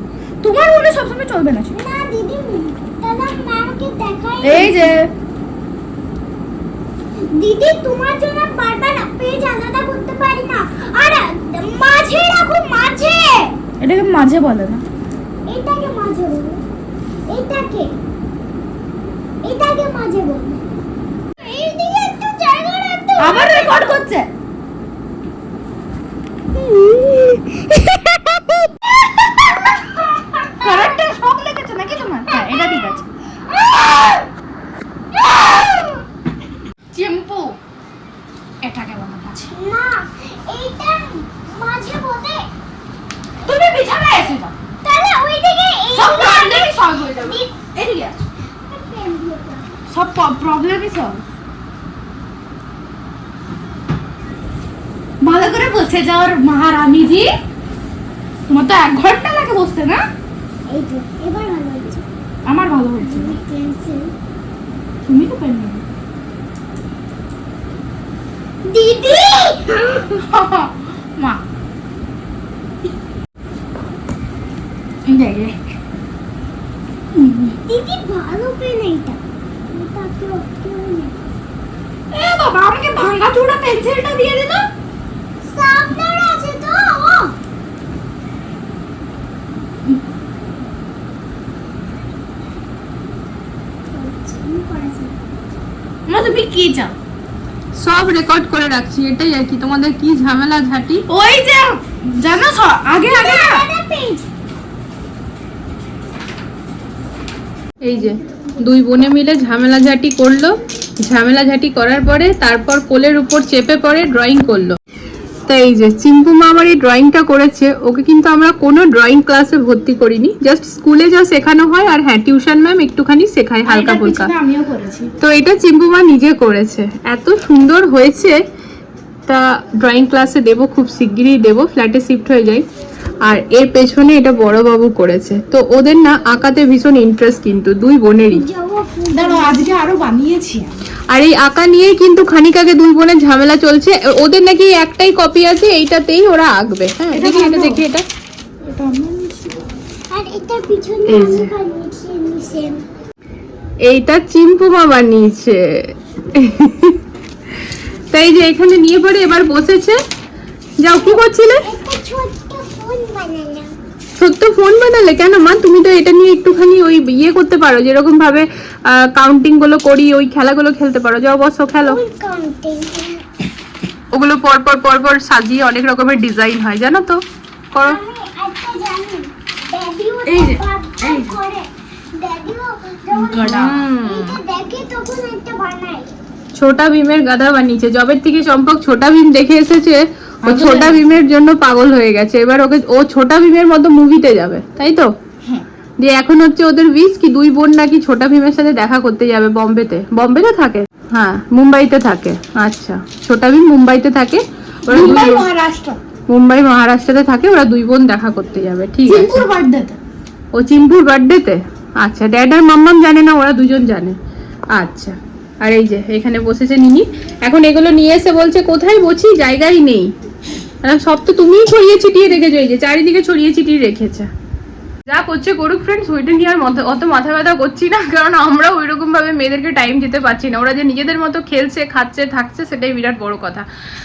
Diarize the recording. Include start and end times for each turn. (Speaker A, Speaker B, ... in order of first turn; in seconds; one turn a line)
Speaker A: 0.4-1.8
Speaker B: 1.7-4.9
Speaker A: 4.4-5.1
Speaker B: 7.2-13.6
Speaker A: 13.8-14.8
Speaker B: 15.5-16.6
Speaker B: 17.3-18.0
Speaker B: 19.4-20.6
Speaker B: 21.4-23.8
Speaker A: 23.2-24.3
Speaker A: 30.5-34.2
Speaker A: 35.2-35.7
Speaker A: 36.9-37.6
Speaker A: 38.6-39.5
Speaker B: 39.4-42.5
Speaker A: 43.4-44.5
Speaker B: 44.8-47.5
Speaker A: 45.9-48.2
Speaker B: 48.5-49.7
Speaker A: 49.9-51.2
Speaker A: 55.2-57.3
Speaker A: 58.5-60.1
Speaker B: 60.7-62.1
Speaker A: 62.4-63.4
Speaker B: 63.0-64.1
Speaker A: 65.1-65.8
Speaker B: 68.6-69.8
Speaker A: 69.0-71.4
Speaker A: 75.0-75.6
Speaker A: 77.2-77.5
Speaker B: 77.7-81.2
Speaker A: 82.1-84.7
Speaker B: 85.4-87.3
Speaker B: 93.9-95.2
Speaker A: 96.1-97.0
Speaker C: 97.8-101.0
Speaker A: 101.1-103.7
Speaker B: 103.0-104.2
Speaker C: 107.8-114.8
Speaker C: 115.5-124.3
Speaker A: 123.6-125.1
Speaker C: 125.2-128.4
Speaker C: 129.3-132.6
Speaker C: 133.2-138.5
Speaker B: 138.3-139.6
Speaker A: 139.1-140.7
Speaker C: 141.1-148.0
Speaker A: 147.1-147.8
Speaker A: 148.6-149.6
Speaker B: 150.1-152.8
Speaker C: 151.1-151.5
Speaker C: 153.8-157.0
Speaker C: 158.1-160.0
Speaker C: 160.8-161.7
Speaker B: 160.9-163.7
Speaker C: 164.2-172.0
Speaker B: 171.8-173.2
Speaker C: 174.1-177.2
Speaker C: 177.7-178.0
Speaker B: 177.8-186.1
Speaker A: 180.2-181.4
Speaker A: 183.1-183.9
Speaker C: 183.4-184.4
Speaker C: 186.5-195.1
Speaker A: 190.4-191.0
Speaker C: 196.0-205.5
Speaker A: 204.8-206.0
Speaker C: 206.3-209.4
Speaker A: 209.1-210.0
Speaker C: 210.5-214.2
Speaker C: 214.7-220.1
Speaker C: 220.8-224.3
Speaker C: 225.1-233.7